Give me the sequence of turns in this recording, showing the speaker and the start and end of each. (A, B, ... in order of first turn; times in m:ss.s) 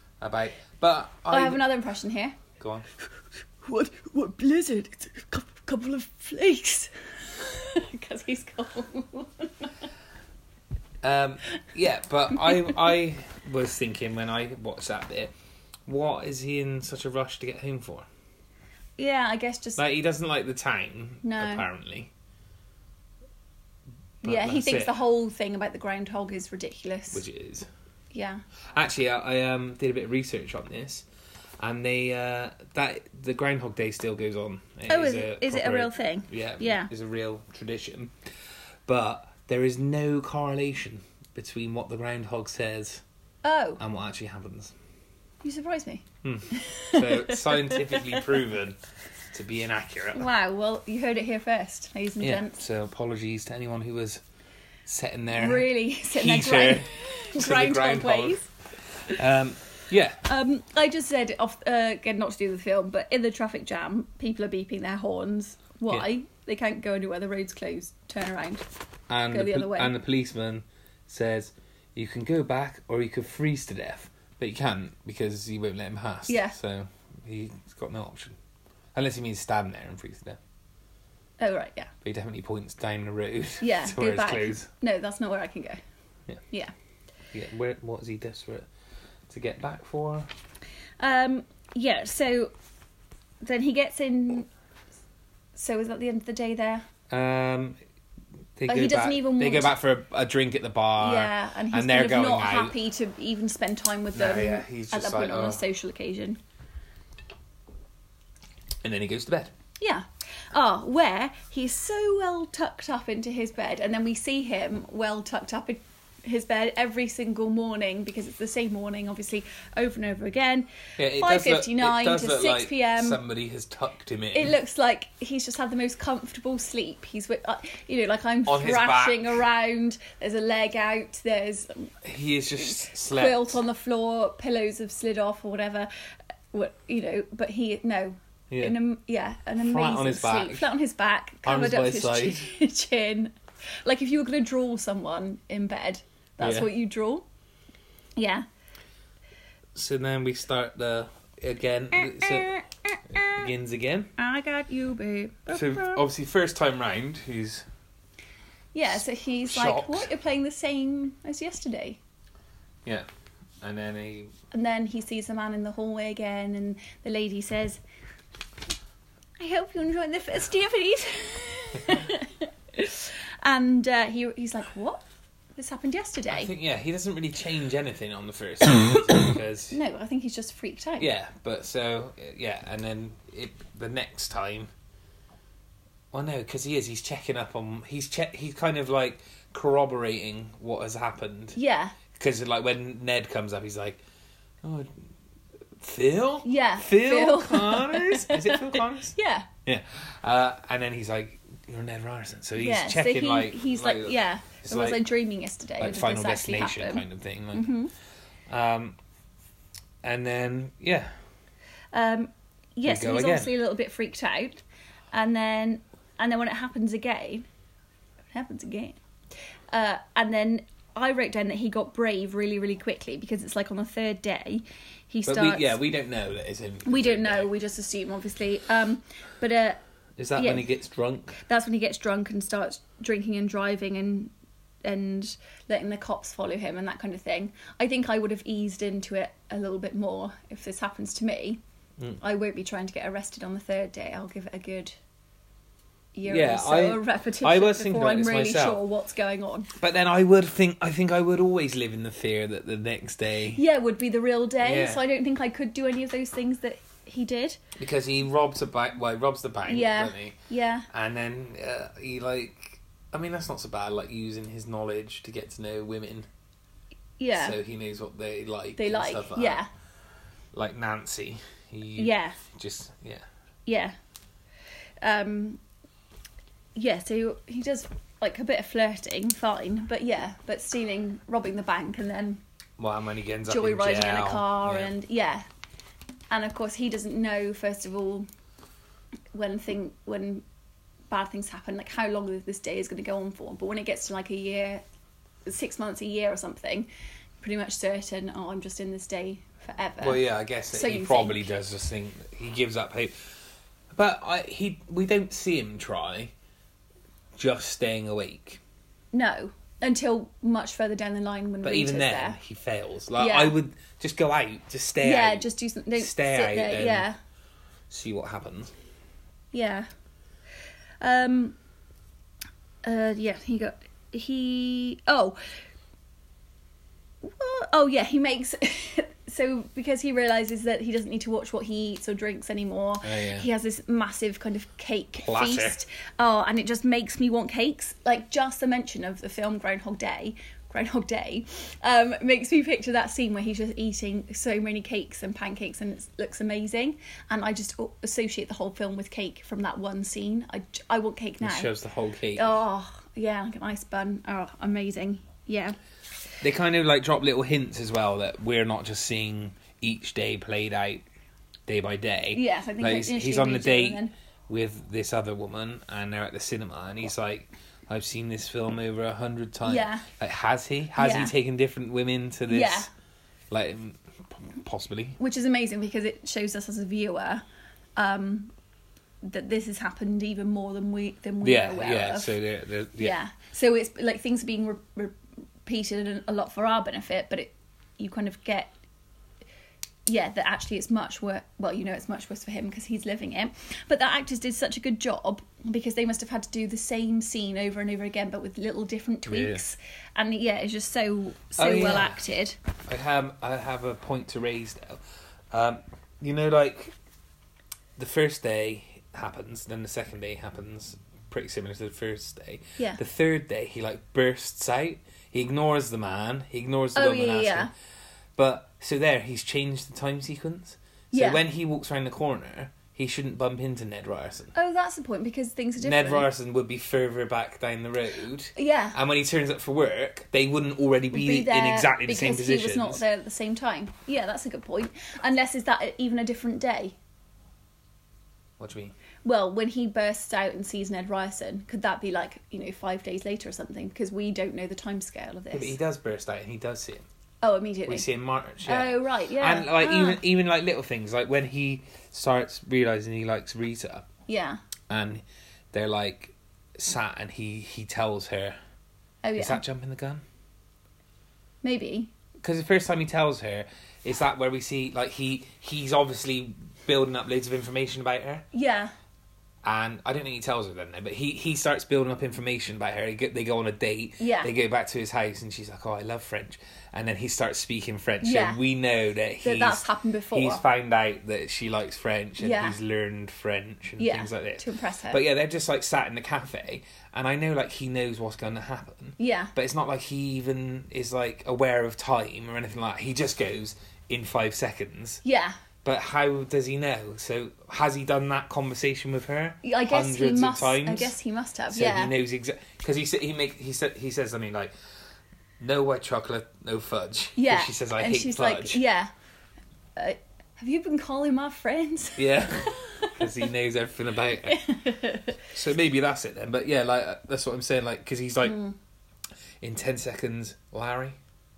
0:00.2-0:01.7 A
0:01.3-0:02.4 B
0:02.6-0:02.9 A
0:03.6-0:09.7 B
0:11.0-0:15.3 A
0:12.5-0:12.7 B
0:15.9-0:18.1 A
0:19.0-0:19.8 B
0:19.8-0:22.1 A
0:21.2-0:21.7 B
0:24.2-0:25.0 A
0:24.2-0:27.2 B
0:27.1-0:27.7 A
0:28.1-0:28.4 B
0:28.7-0:31.1 A
0:31.6-0:38.2 A
0:34.9-0:36.9 B
0:38.9-0:43.0 A
0:43.4-0:43.8 B
0:43.8-0:44.7 A
0:45.4-0:48.3 B
0:46.2-0:48.8 A
0:49.3-0:50.3 A
0:50.2-0:52.6 B
0:52.2-0:54.2 A
0:54.9-0:58.4 A
0:55.3-0:58.4 B
0:59.1-1:00.2 A
1:00.2-1:08.6 B
1:09.1-1:18.4 A
1:09.3-1:09.9 B
1:16.3-1:16.6 B
1:19.0-1:20.4 A
1:21.4-1:21.9 B
1:22.0-1:24.7 A
1:23.6-1:25.8 B
1:27.3-1:28.7 A
1:29.3-1:30.3 A
1:31.0-1:32.5 B
1:33.4-1:34.5 B
1:35.6-1:36.9 B
1:37.1-1:37.8 A
1:38.6-1:42.8 A
1:38.7-1:39.7 B
1:41.0-1:46.4 B
1:44.1-1:45.6 A
1:48.8-1:49.5 A
1:49.8-2:03.2 B
2:01.0-2:04.5 A
2:04.3-2:12.0 B
2:08.5-2:09.4 A
2:12.0-2:13.6 A
2:12.6-2:15.9 B
2:16.5-2:27.2 B
2:18.5-2:18.8 A
2:19.6-2:20.7 A
2:21.4-2:22.5 A
2:26.4-2:26.7 A
2:28.2-2:28.5 B
2:29.8-2:32.5 A
2:32.0-2:33.4 B
2:33.1-2:34.1 A
2:34.2-2:36.0 B
2:35.5-2:37.7 A
2:38.7-2:42.0 B
2:39.4-2:40.1 A
2:43.6-2:44.3 A
2:44.5-2:47.8 B
2:49.4-2:55.0 B
2:55.6-2:56.5 B
2:56.3-2:59.8 A
2:59.7-3:01.1 B
3:01.0-3:04.7 A
3:06.1-3:11.6 A
3:11.6-3:12.0 B
3:12.1-3:14.0 A
3:14.6-3:14.9 A
3:15.8-3:25.0 A
3:16.4-3:19.5 B
3:22.6-3:27.9 B
3:25.8-3:27.8 A
3:28.5-3:29.0 A
3:30.0-3:31.2 A
3:31.9-3:34.6 B
3:32.8-3:33.5 A
3:35.1-3:37.5 B
3:38.3-3:39.0 B
3:39.7-3:45.8 B
3:45.3-3:47.5 A
3:46.8-3:49.8 B
3:50.2-3:51.4 A
3:50.4-3:50.6 B
3:51.4-3:54.3 B
3:54.8-4:01.6 B
4:02.2-4:05.0 B
4:06.2-4:09.7 B
4:06.3-4:08.8 A
4:09.8-4:13.6 A
4:13.5-4:17.6 B
4:14.6-4:15.0 A
4:17.8-4:20.4 A
4:19.7-4:20.9 B
4:20.9-4:26.3 A
4:27.2-4:27.6 B
4:27.4-4:29.6 A
4:28.8-4:29.7 B
4:30.5-4:33.2 A
4:32.0-4:32.4 B
4:33.7-4:34.0 B
4:35.0-4:35.6 B
4:36.8-4:42.4 B
4:42.8-4:44.9 A
4:43.5-4:45.4 B
4:46.3-4:48.3 B
4:49.3-4:50.4 B
4:51.1-4:54.8 B
4:55.5-4:56.9 B
4:57.4-5:01.6 B
5:00.0-5:03.3 A
5:03.9-5:06.3 A
5:07.4-5:08.6 A
5:09.1-5:12.4 B
5:11.6-5:17.1 A
5:13.2-5:13.5 B
5:15.0-5:17.2 B
5:17.9-5:18.7 A
5:19.5-5:19.9 B
5:21.0-5:21.6 B
5:22.8-5:25.5 B
5:27.2-5:51.7 B
5:33.0-5:33.5 A
5:35.2-5:35.8 A
5:51.4-5:52.6 A
5:52.4-5:55.8 B
5:56.4-6:01.0 A
6:01.7-6:12.9 A
6:02.3-6:04.1 B
6:09.6-6:10.1 B
6:11.0-6:11.3 B
6:12.5-6:12.9 B
6:13.5-6:15.2 A
6:15.2-6:17.4 B
6:18.0-6:18.5 B
6:19.2-6:22.3 B
6:21.4-6:23.2 A
6:23.0-6:28.7 B
6:30.1-6:42.6 B
6:39.3-6:39.6 A
6:41.6-6:42.2 A
6:42.9-6:46.9 A
6:48.0-6:57.7 A
6:57.0-6:57.7 B
6:58.4-7:04.5 A
7:01.1-7:01.4 B
7:04.5-7:06.3 B
7:05.8-7:13.0 A
7:08.6-7:09.0 B
7:11.1-7:17.0 B
7:18.6-7:19.0 A
7:19.2-7:25.8 B
7:25.5-7:27.0 A
7:27.4-7:28.1 B
7:27.9-7:34.1 A
7:28.6-7:30.2 B
7:34.3-7:34.6 B
7:34.9-7:38.6 A
7:39.2-7:39.6 B
7:39.4-7:40.2 A
7:41.6-7:42.1 B
7:42.4-7:48.4 A
7:48.5-7:48.9 B
7:49.6-8:15.2 A
7:54.2-7:54.5 B
7:58.2-7:58.6 B
7:59.4-8:00.6 B
8:02.4-8:02.8 B
8:04.0-8:05.2 B
8:09.2-8:09.5 B
8:15.2-8:15.6 B
8:15.8-8:21.2 A
8:19.6-8:22.1 B
8:21.7-8:24.7 A
8:25.6-8:28.8 A
8:27.4-8:29.1 B
8:30.0-8:33.3 B
8:32.2-8:34.6 A
8:34.5-8:35.5 B
8:35.5-8:38.6 A
8:38.4-8:38.8 B
8:39.6-8:41.2 A